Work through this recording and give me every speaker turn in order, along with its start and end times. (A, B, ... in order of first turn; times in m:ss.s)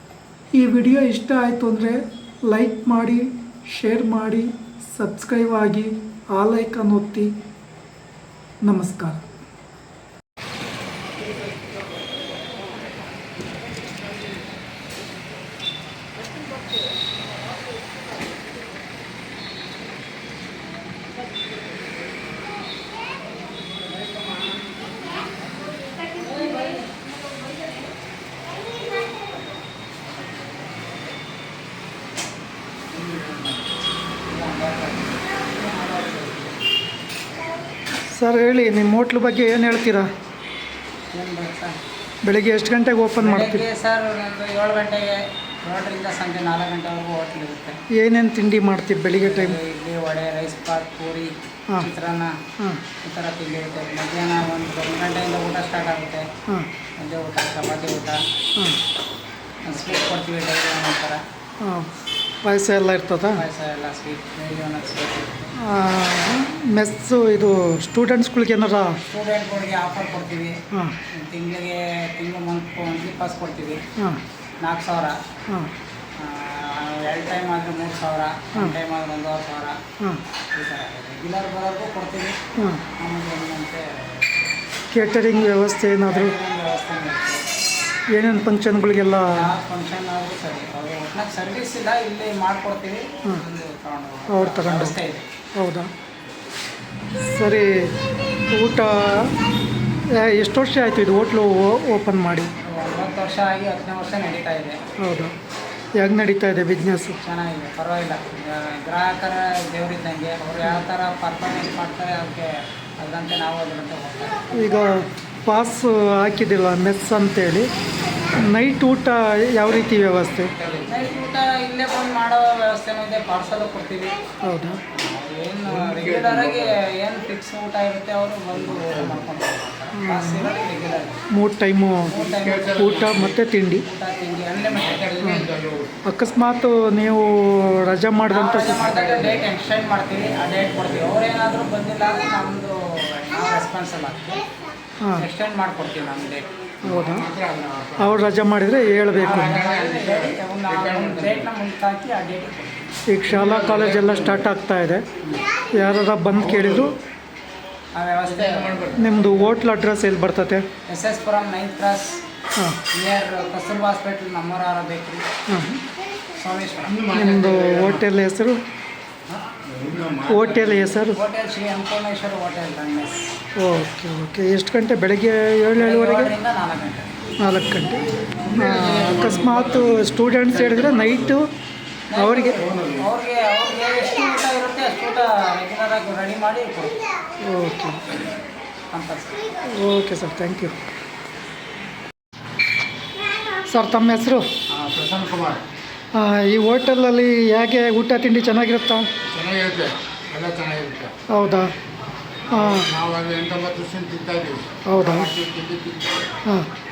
0:00.5-0:07.3 A
0:08.6-0:09.2 A
0:26.4-0:26.7 B
0:32.9-0:33.7 B
0:34.3-0:36.6 B
0:38.2-0:40.1 A
0:41.1-0:41.8 B
0:42.2-0:43.7 A
0:43.2-0:47.8 B
0:48.0-0:49.6 A
0:49.2-0:52.3 B
0:53.0-0:56.3 B
0:57.0-0:58.2 B
0:59.6-1:01.2 B
1:01.6-1:01.9 A
1:02.4-1:03.4 A
1:03.3-1:05.5 B
1:05.6-1:09.0 A
1:09.0-1:10.6 B
1:10.7-1:11.0 A
1:11.1-1:13.8 B
1:14.6-1:15.2 B
1:16.2-1:19.8 B
1:20.5-1:22.4 B
1:22.6-1:22.8 A
1:23.0-1:24.4 B
1:24.9-1:26.4 A
1:26.1-1:27.5 B
1:28.1-1:29.5 A
1:29.3-1:35.2 B
1:34.3-1:35.0 A
1:35.6-1:35.9 A
1:37.2-1:37.9 A
1:38.5-1:39.3 A
1:40.1-1:42.5 A
1:42.6-1:44.8 B
1:45.0-1:45.3 A
1:46.0-1:47.2 A
1:47.1-1:54.5 B
1:54.5-1:57.7 A
1:58.5-2:00.6 A
2:00.4-2:01.2 C
2:00.8-2:04.2 B
2:04.4-2:04.8 A
2:04.9-2:11.2 B
2:05.7-2:06.8 C
2:08.5-2:09.3 C
2:10.0-2:10.5 A
2:11.3-2:13.8 A
2:12.1-2:13.0 B
2:12.4-2:13.4 C
2:13.8-2:15.3 B
2:14.7-2:16.0 C
2:15.2-2:15.5 A
2:16.0-2:18.8 A
2:18.3-2:24.4 B
2:18.7-2:19.4 C
2:25.2-2:26.5 B
2:26.8-2:27.3 A
2:26.8-2:28.3 C
2:28.0-2:29.6 A
2:29.1-2:31.5 C
2:29.2-2:33.0 B
2:33.1-2:35.1 A
2:33.3-2:34.5 C
2:35.7-2:37.0 A
2:36.3-2:37.0 C
2:38.0-2:39.1 B
2:38.2-2:39.5 C
2:39.0-2:40.7 A
2:40.9-2:42.2 B
2:42.9-2:45.2 B
2:45.5-2:45.8 A
2:46.3-2:47.0 B
2:46.9-2:48.1 C
2:47.1-2:48.6 A
2:49.4-2:51.0 C
2:50.3-2:51.2 A
2:51.1-2:53.3 B
2:53.6-2:56.3 A
2:55.7-2:57.1 B
2:57.4-3:01.5 A
2:58.4-3:01.4 C
3:02.1-3:07.0 B
3:02.2-3:02.6 A
3:02.6-3:03.1 C
3:07.4-3:08.0 A
3:08.9-3:09.5 B
3:09.7-3:10.8 A
3:13.7-3:14.5 A
3:14.7-3:15.6 C
3:16.1-3:19.1 A
3:19.3-3:21.1 C
3:21.3-3:21.7 A
3:22.5-3:26.2 C
3:22.5-3:22.9 A
3:24.9-3:25.3 A